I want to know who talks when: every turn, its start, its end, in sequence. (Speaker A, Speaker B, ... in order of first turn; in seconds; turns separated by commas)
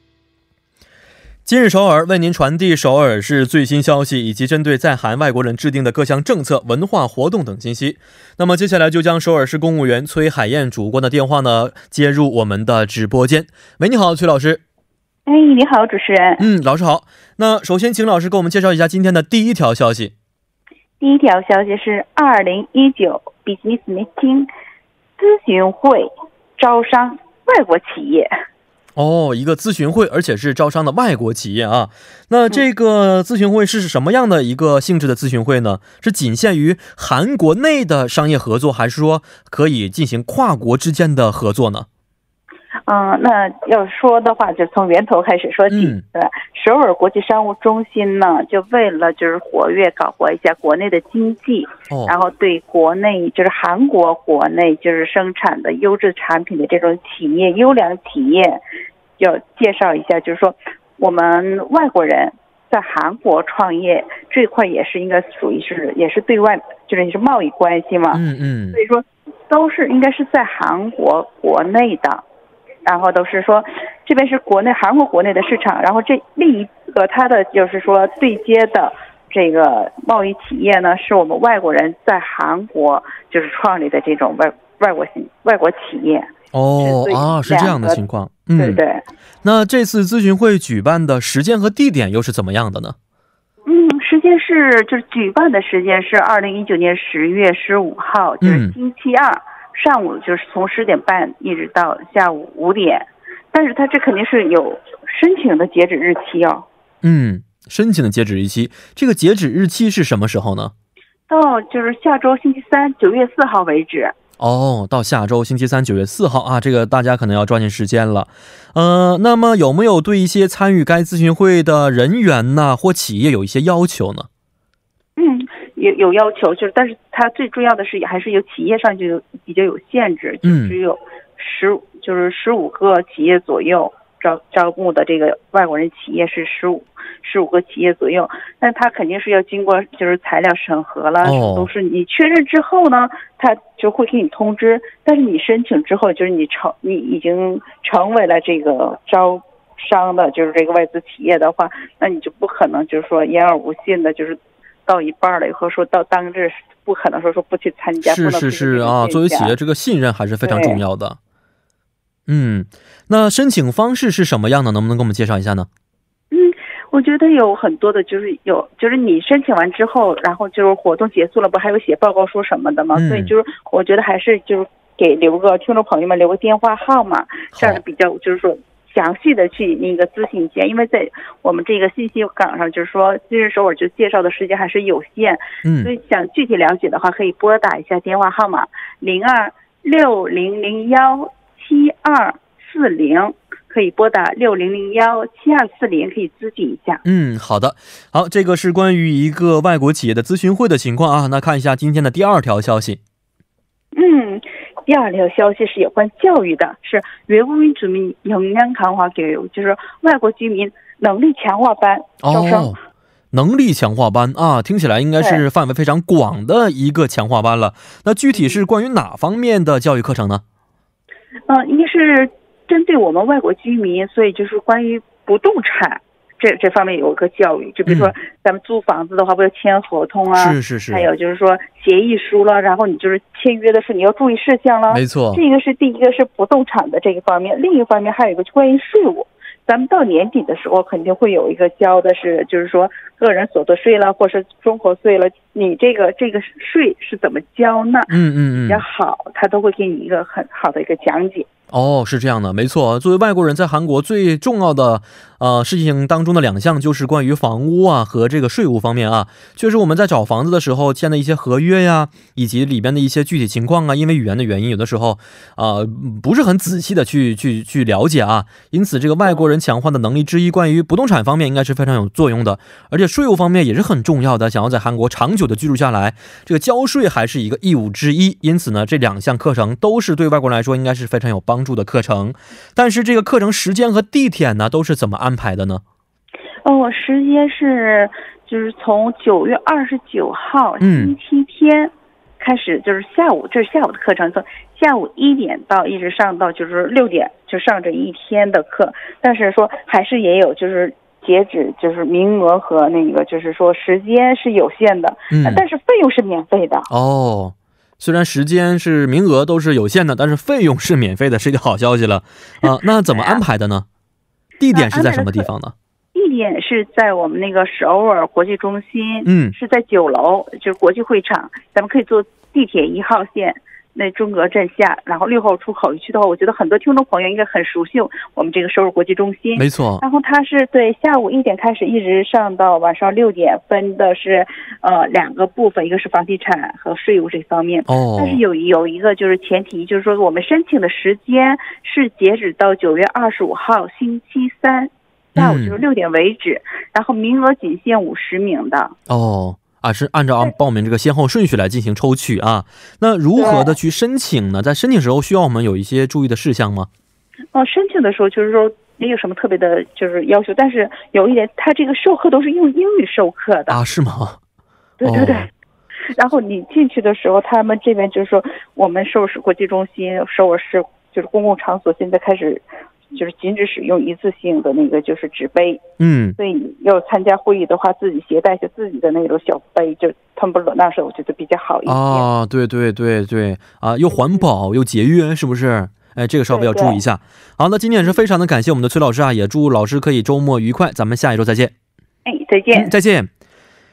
Speaker A: 1.5-14.6, Speaker B: 15.3-16.4, Speaker A: 16.4-20.1, Speaker B: 21.0-24.5, Speaker B: 25.2-28.3, Speaker A: 28.9-41.9, Speaker B: 42.9-58.6, Speaker A: 45.7-46.0, Speaker B: 59.2-68.2, Speaker A: 68.1-68.8, Speaker B: 68.7-72.2, Speaker B: 72.8-88.0, Speaker A: 86.5-88.8, Speaker B: 88.5-89.0, Speaker A: 89.4-93.0, Speaker B: 93.7-106.7, Speaker A: 98.4-98.8, Speaker A: 107.0-110.7, Speaker B: 111.3-114.1, Speaker A: 114.4-124.3, Speaker B: 125.2-159.6, Speaker A: 130.4-130.8, Speaker A: 141.2-141.7, Speaker A: 158.0-161.2, Speaker B: 160.4-160.8, Speaker A: 162.3-165.7, Speaker B: 166.3-197.0, Speaker A: 172.9-173.3, Speaker A: 177.5-177.8, Speaker A: 185.7-185.9, Speaker A: 197.0-203.0, Speaker B: 203.9-212.8, Speaker A: 212.2-212.8, Speaker A: 213.3-220.4, Speaker B: 215.2-215.4, Speaker B: 221.5-251.5, Speaker A: 227.9-228.2, Speaker A: 230.4-231.1, Speaker A: 234.9-235.4, Speaker A: 248.1-248.8, Speaker A: 251.7-285.8, Speaker B: 286.6-306.9, Speaker A: 290.8-291.1, Speaker A: 305.3-305.6, Speaker A: 306.9-313.9, Speaker B: 312.6-313.4, Speaker A: 314.6-315.7, Speaker B: 314.7-315.5, Speaker B: 316.1-348.9, Speaker A: 319.2-319.6, Speaker A: 329.6-330.0, Speaker A: 337.9-338.4, Speaker A: 345.4-345.8, Speaker A: 349.1-356.9, Speaker B: 353.3-353.8, Speaker B: 357.5-363.8, Speaker A: 363.7-364.4, Speaker B: 365.0-365.5, Speaker A: 365.0-365.5, Speaker B: 366.1-375.8, Speaker A: 376.0-376.4, Speaker B: 376.4-382.3, Speaker A: 381.9-391.7, Speaker B: 386.5-387.0, Speaker B: 392.2-392.9, Speaker A: 392.7-393.3